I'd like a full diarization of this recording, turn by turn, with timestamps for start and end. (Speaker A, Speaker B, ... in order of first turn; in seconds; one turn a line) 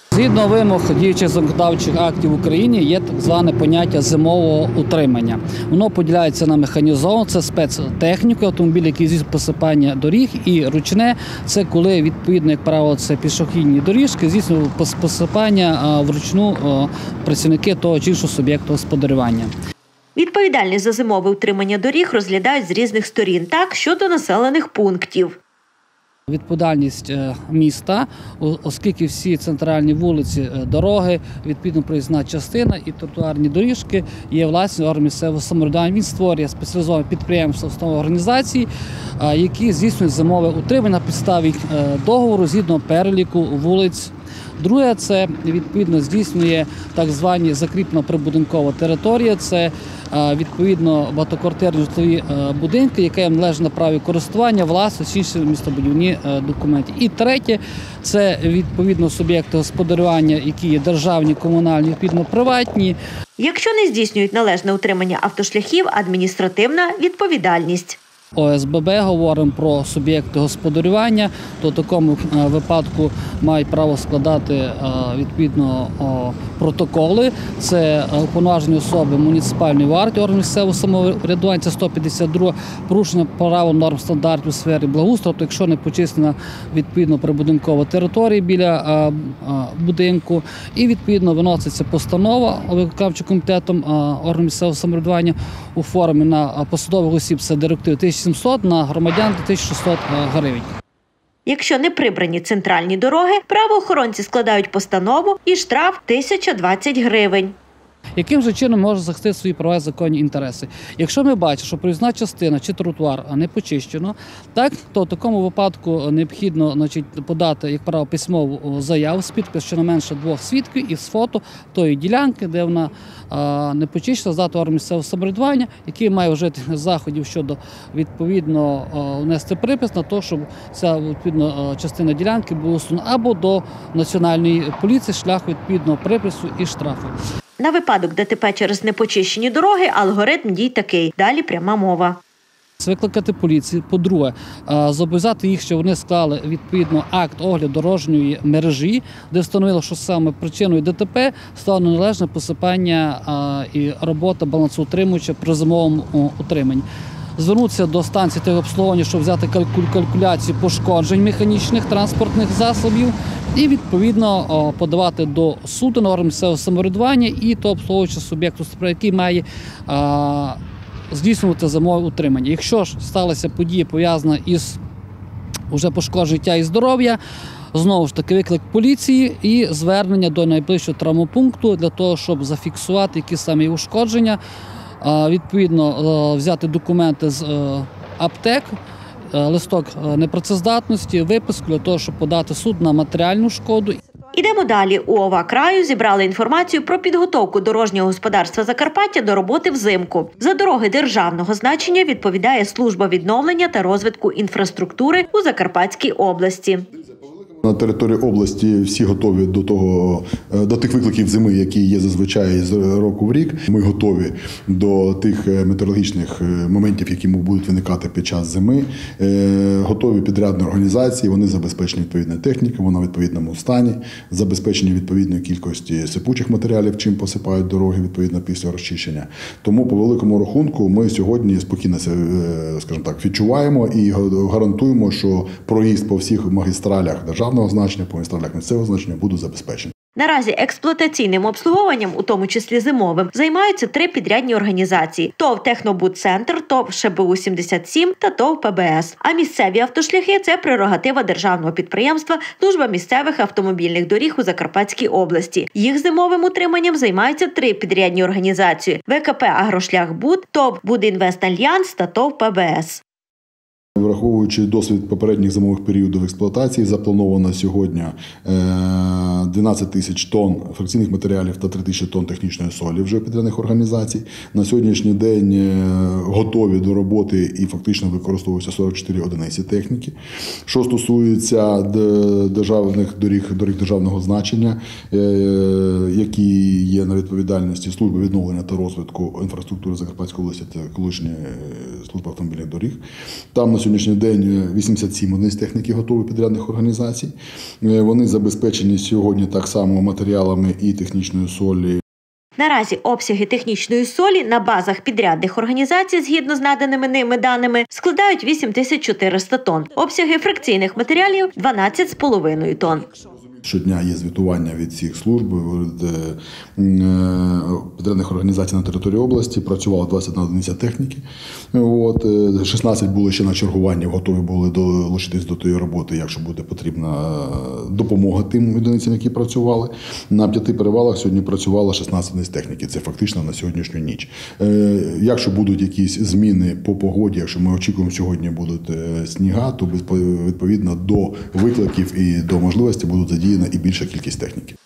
Speaker A: 0.1-19.5
Speaker B: 20.1-25.4
Speaker A: 26.3-38.7
Speaker A: 39.2-63.0
Speaker B: 63.4-68.0
Speaker A: 68.3-100.7
Speaker B: 101.5-107.5
Speaker A: 108.2-137.2
Speaker B: 137.6-142.2
Speaker A: 142.8-170.6
Speaker A: 171.1-174.8
Speaker A: 175.7-177.2
Speaker A: 177.7-184.4
Speaker A: 185.0-188.7
Speaker A: 189.3-194.0
Speaker B: 194.3-206.9
Speaker C: 207.6-239.9
Speaker B: 240.1-263.0
Speaker C: 264.0-280.1
Speaker C: 280.6-293.0
Speaker C: 293.5-302.0
Speaker B: 302.6-313.1
Speaker C: 313.6-344.8